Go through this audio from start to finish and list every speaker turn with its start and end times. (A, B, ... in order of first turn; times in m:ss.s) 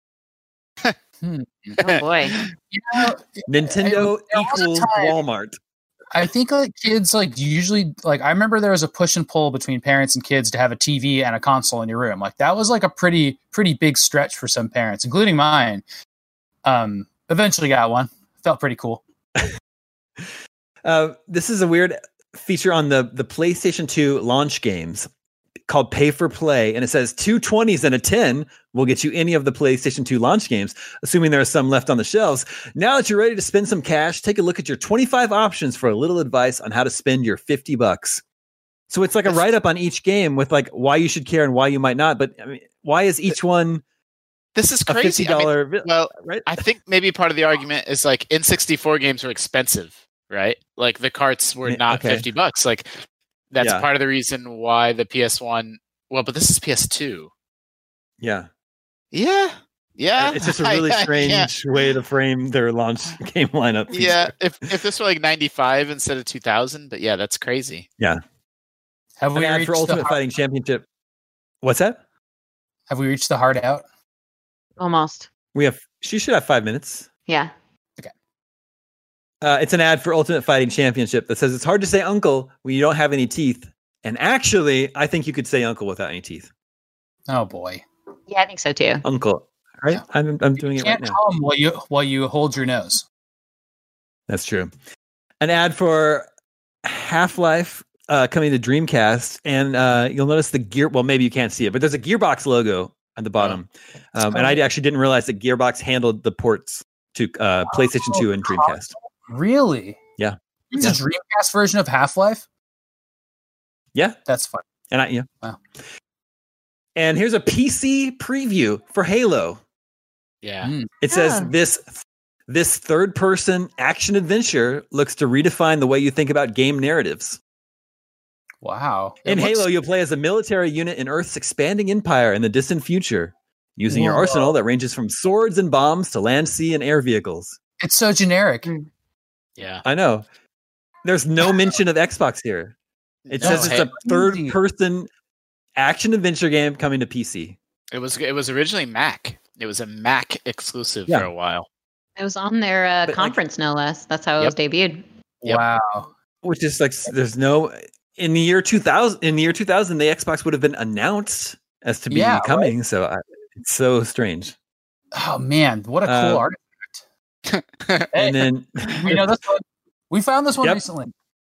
0:01.2-0:01.8 A
0:01.8-0:02.4 B
0:01.9-0:02.5 C
0:02.4-0:05.2 A
0:03.5-0:05.6 D
0:06.1-0:15.8 A
0:16.6-0:19.0 A
0:20.8-0:25.1 D
0:25.7-0:38.2 D
0:38.9-0:43.8 D
0:44.6-0:52.9 C
0:44.9-0:46.6 D
0:51.6-0:52.2 D
0:53.5-0:57.3 C
0:53.6-0:53.8 D
0:58.2-0:58.5 D
0:59.1-1:01.5 C
1:00.2-1:04.3 D
1:03.9-1:07.8 C
1:09.2-1:10.2 A
1:09.3-1:10.8 D
1:11.6-1:12.0 D
1:12.9-1:13.8 A
1:14.8-1:15.3 B
1:15.5-1:17.1 D
1:19.4-1:26.5 D
1:27.3-1:27.8 A
1:28.3-1:29.0 B
1:29.0-1:31.2 D
1:30.6-1:33.0 A
1:34.3-1:34.7 D
1:35.4-1:36.2 D
1:36.8-1:48.9 D
1:44.3-1:44.6 A
1:47.7-1:50.0 A
1:50.2-1:51.0 D
1:50.7-1:52.4 A
1:54.3-1:54.6 A
1:54.9-1:55.3 D
1:57.0-1:59.6 D
2:00.4-2:00.7 C
2:00.6-2:00.9 A
2:01.0-2:07.4 D
2:01.1-2:01.5 B
2:08.6-2:09.6 A
2:09.2-2:17.6 D
2:13.9-2:14.5 A
2:17.8-2:18.7 A
2:19.6-2:19.8 C
2:19.8-2:20.2 D
2:21.0-2:22.7 D
2:23.3-2:23.8 C
2:23.3-2:25.1 D
2:23.4-2:24.6 A
2:25.8-2:27.6 D
2:27.9-2:31.7 C
2:32.2-2:35.0 B
2:33.0-2:33.4 D
2:35.4-2:36.1 A
2:36.4-2:44.5 D
2:42.1-2:42.7 A
2:45.1-2:47.0 A
2:46.0-2:46.4 D
2:47.5-2:48.1 C
2:48.1-2:48.5 A
2:48.1-2:49.3 D
2:49.0-2:51.1 A